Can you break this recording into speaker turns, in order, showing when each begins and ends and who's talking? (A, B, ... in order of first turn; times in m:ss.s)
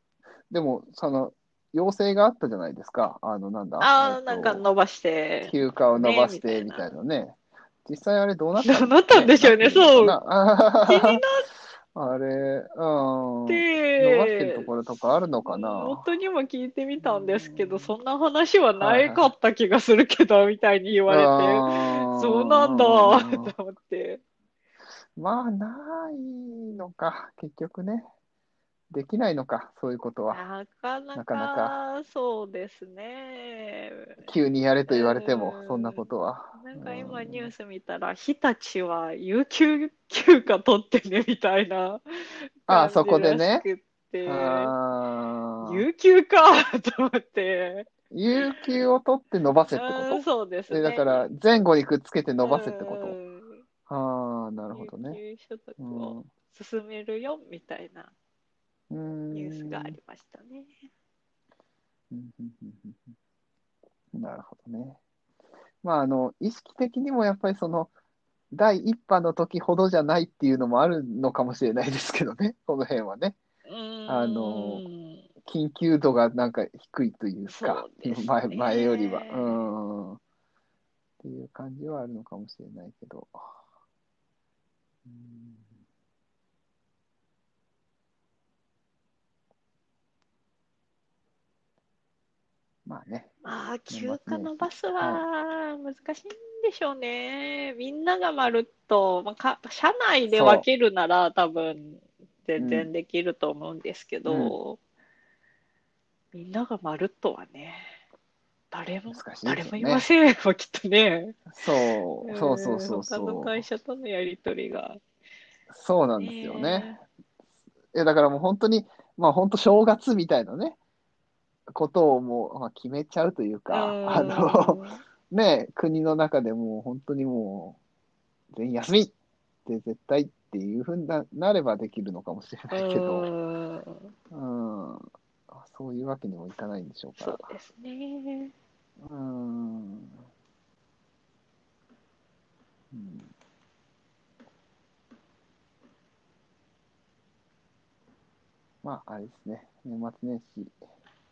0:00.5-0:04.6 A
0:03.8-0:06.8 B
0:05.4-0:11.2 A
0:08.6-0:10.2 B
0:10.8-0:11.4 B
0:11.9-0:16.0 A
0:13.5-0:14.7 B
0:15.4-0:24.2 B
0:17.0-0:17.9 A
0:18.8-0:19.3 A
0:21.1-0:23.5 A
0:25.2-0:28.1 A
0:28.9-0:30.4 A
0:30.3-0:34.2 B
0:31.1-0:31.8 A
0:34.2-0:37.5 A
0:34.9-0:44.7 B
0:42.7-0:43.7 A
0:44.2-0:45.8 A
0:45.6-0:47.9 B
0:48.1-0:53.2 A
0:49.7-0:51.3 B
0:52.4-0:53.6 B
0:53.9-0:55.2 A
0:54.7-0:58.1 B
0:55.8-0:56.3 A
0:58.9-1:00.0 A
0:59.3-1:00.7 B
1:02.1-1:03.1 A
1:04.1-1:05.0 A
1:05.8-1:07.9 A
1:08.5-1:13.4 A
1:13.6-1:15.2 B
1:14.1-1:14.8 A
1:15.4-1:20.2 A
1:17.4-1:19.6 B
1:21.2-1:23.4 A
1:25.0-1:25.7 A
1:32.8-1:33.3 A
1:33.4-1:44.8 B
1:33.9-1:35.2 A
1:40.3-1:40.7 A
1:42.6-1:42.9 A
1:44.3-1:44.6 A
1:46.3-1:47.9 B
1:48.7-1:55.0 B
1:49.1-1:50.0 A
1:51.5-1:53.6 A
1:55.7-1:57.0 A
1:56.2-1:57.0 B
1:57.9-2:00.8 A
2:01.7-2:04.8 A
2:03.7-2:05.0 B
2:05.3-2:07.8 A
2:08.5-2:09.1 A
2:09.6-2:13.3 A
2:12.7-2:14.1 B
2:14.3-2:17.5 A
2:17.2-2:18.5 B
2:19.0-2:20.2 A
2:22.9-2:23.3 A
2:28.8-2:30.7 A